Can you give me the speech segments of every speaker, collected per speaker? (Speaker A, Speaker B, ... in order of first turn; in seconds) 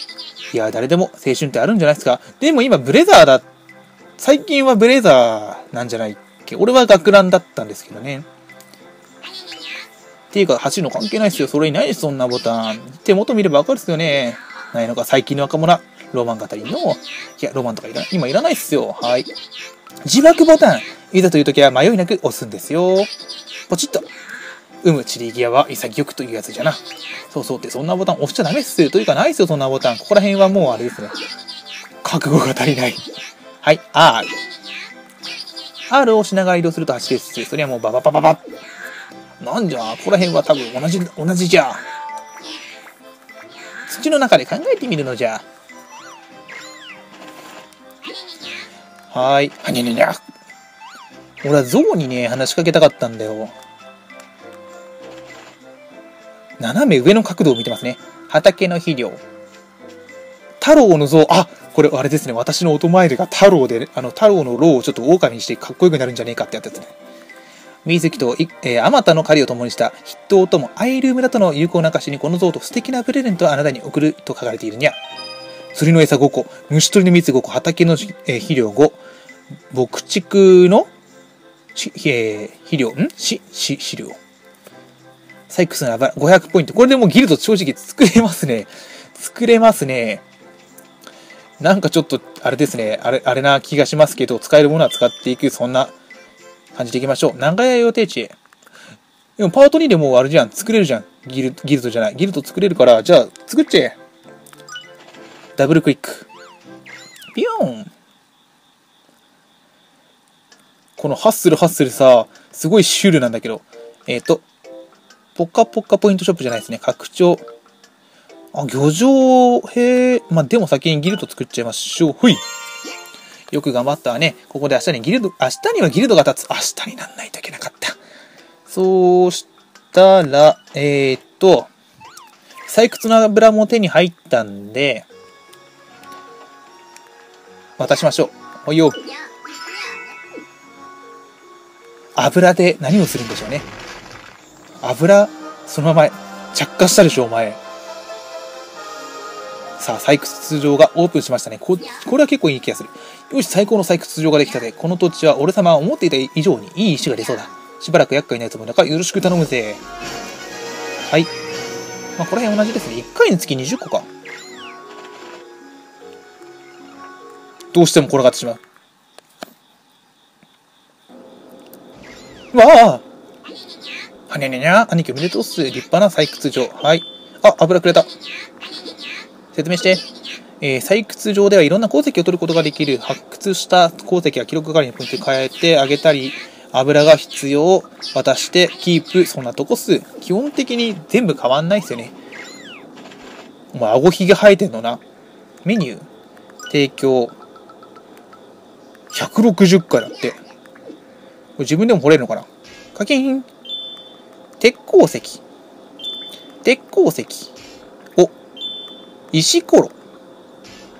Speaker A: 0.5-3.5, 4.2-8.3, 10.3-19.3, 20.1-23.1, 23.7-24.1, 24.8-31.2, 32.0-33.0, 33.6-34.3, 35.9-38.4, 39.4-41.9, 43.9-45.5, 49.1-50.2, 51.4-53.5, 56.6-59.2, 60.6-67.0, 67.8-75.0, 75.7-79.0, 79.7-80.9, 81.8-84.2, 85.5-90.2, 91.6-96.0, 96.8-98.4, 99.4-104.0, 105.6-106.3, 107.3-107.9, 111.0-114.5, 115.3-117.5, 118.5-122.4, 123.5-128.0, 128.7-131.7, 132.7-135.1, 137.8-139.0, 142.2-143.7, 144.8-147.6, 149.8-159.8, 162.2-164.1, 167.7-168.6, 172.5-173.1, 174.3-178.1, 179.5-180.1, 180.6-192.2, 193.7-195.0, 195.6-196.1, 196.7-197.4, 199.1-200.4, 201.6-203.5, 204.6-205.4, 206.6-207.5, 209.3-210.0